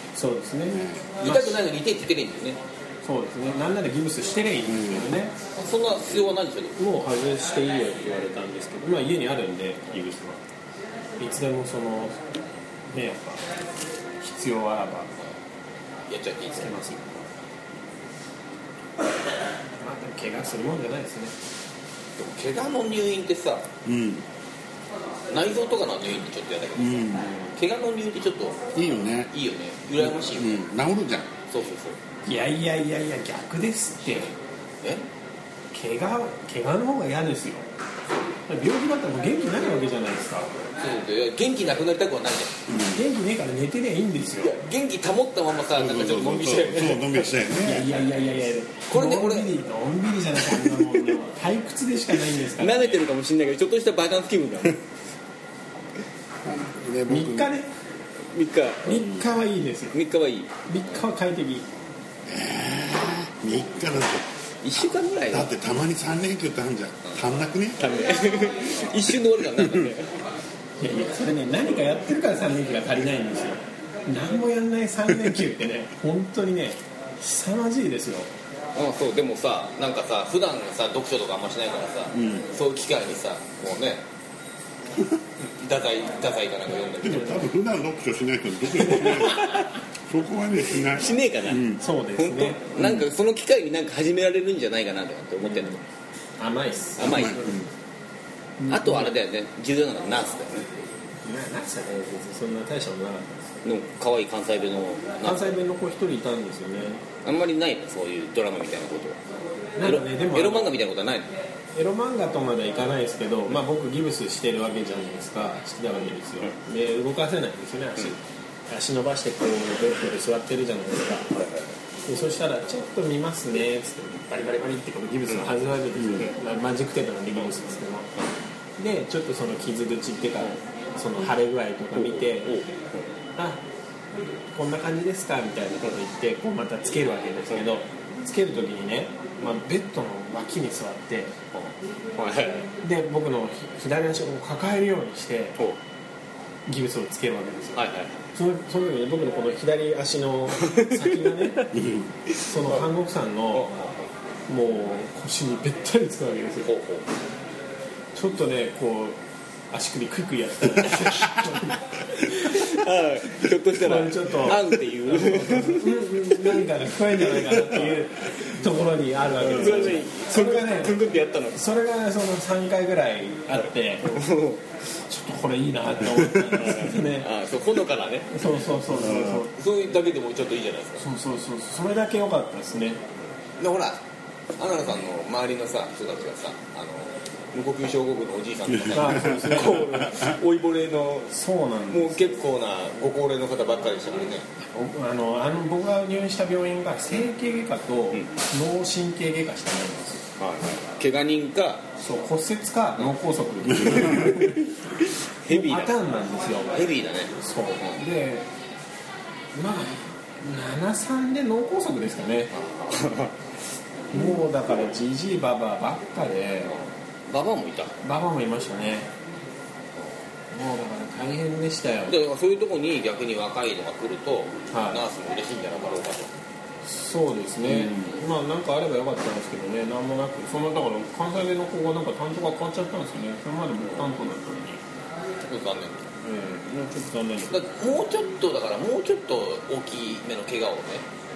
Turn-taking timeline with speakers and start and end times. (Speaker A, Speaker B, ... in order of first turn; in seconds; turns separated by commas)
Speaker A: 0.1-1.6, Speaker B: 0.7-1.1, Speaker C: 1.2-2.6, Speaker A: 3.0-5.4, Speaker B: 4.7-5.1, Speaker C: 5.5-6.8, Speaker A: 6.8-10.4, Speaker A: 11.2-12.2, Speaker A: 12.9-13.4, Speaker A: 14.2-15.1, Speaker C: 16.1-16.8, Speaker A: 16.6-17.2, Speaker A: 19.8-21.4, Speaker C: 22.2-23.7, Speaker B: 23.9-24.3, Speaker C: 25.3-28.6, Speaker B: 26.8-27.3, Speaker B: 28.8-29.3, Speaker C: 29.3-30.6, Speaker B: 30.0-31.3, Speaker C: 31.5-32.0, Speaker A: 32.3-34.3, Speaker A: 35.7-37.6, Speaker A: 38.5-40.5, Speaker C: 40.8-42.6, Speaker A: 42.8-44.6, Speaker C: 44.4-47.3, Speaker B: 45.7-47.9, Speaker A: 47.6-53.0, Speaker C: 48.9-49.6, Speaker C: 50.4-51.1, Speaker C: 52.3-54.8, Speaker B: 56.4-57.5, Speaker A: 57.1-57.7, Speaker C: 58.3-59.1, Speaker A: 58.8-60.0, Speaker C: 59.9-60.5, Speaker A: 60.7-61.7, Speaker B: 62.3-64.2, Speaker C: 64.6-65.5, Speaker B: 65.3-67.8, Speaker C: 67.8-70.1, Speaker A: 70.8-78.3, Speaker C: 78.8-84.0, Speaker B: 82.2-82.4, Speaker C: 85.4-87.5, Speaker B: 87.0-89.5, Speaker C: 88.8-89.7, Speaker B: 90.1-91.8, Speaker C: 90.8-95.8, Speaker A: 91.8-92.7, Speaker A: 96.4-97.6, Speaker C: 97.0-97.6, Speaker B: 97.0-97.6, Speaker A: 98.6-99.1, Speaker C: 98.7-100.7, Speaker A: 101.2-103.6, Speaker C: 103.6-105.5, Speaker A: 105.2-107.0, Speaker C: 107.2-109.2, Speaker A: 109.8-110.8, Speaker C: 109.8-111.3, Speaker A: 111.7-121.3, Speaker C: 121.3-121.7, Speaker A: 122.1-128.1, Speaker B: 126.0-126.2, Speaker A: 128.8-132.6, Speaker C: 132.0-133.0, Speaker A: 133.4-133.6, Speaker A: 134.5-141.3, Speaker C: 141.5-142.7, Speaker A: 142.8-145.6, Speaker A: 146.7-151.8, Speaker C: 147.8-148.2, Speaker C: 150.6-151.1, Speaker B: 151.7-152.1, Speaker A: 152.4-153.7, Speaker C: 152.6-152.9, Speaker C: 153.5-154.1, Speaker A: 154.5-156.7, Speaker C: 156.6-157.1, Speaker A: 158.2-159.2, Speaker A: 159.7-162.7, Speaker C: 162.2-166.0, Speaker A: 163.7-171.0, Speaker C: 167.2-167.9, Speaker C: 169.4-171.6, Speaker A: 171.5-174.2, Speaker C: 174.0-174.6, Speaker A: 175.1-177.3, Speaker C: 176.3-178.4, Speaker A: 178.3-179.5, Speaker B: 179.0-179.4, Speaker C: 179.5-181.0, Speaker A: 181.0-183.0, Speaker C: 183.6-184.0, Speaker C: 184.6-191.3, Speaker A: 188.9-190.2, Speaker B: 189.0-189.5, Speaker A: 191.3-192.4, Speaker C: 191.9-194.5, Speaker A: 194.6-200.2, Speaker C: 200.4-201.9, Speaker A: 202.0-204.6, Speaker C: 203.8-206.0, Speaker A: 205.5-206.7, Speaker C: 206.7-208.0, Speaker A: 207.4-208.5, Speaker A: 209.5-212.5, Speaker C: 212.5-213.3, Speaker A: 214.1-216.7, Speaker C: 216.7-218.0, Speaker A: 218.0-219.1, Speaker A: 220.5-222.2, Speaker C: 222.1-226.3, Speaker A: 224.7-225.0, Speaker A: 226.8-234.8, Speaker C: 235.5-236.1, Speaker A: 236.2-237.6, Speaker C: 237.5-241.1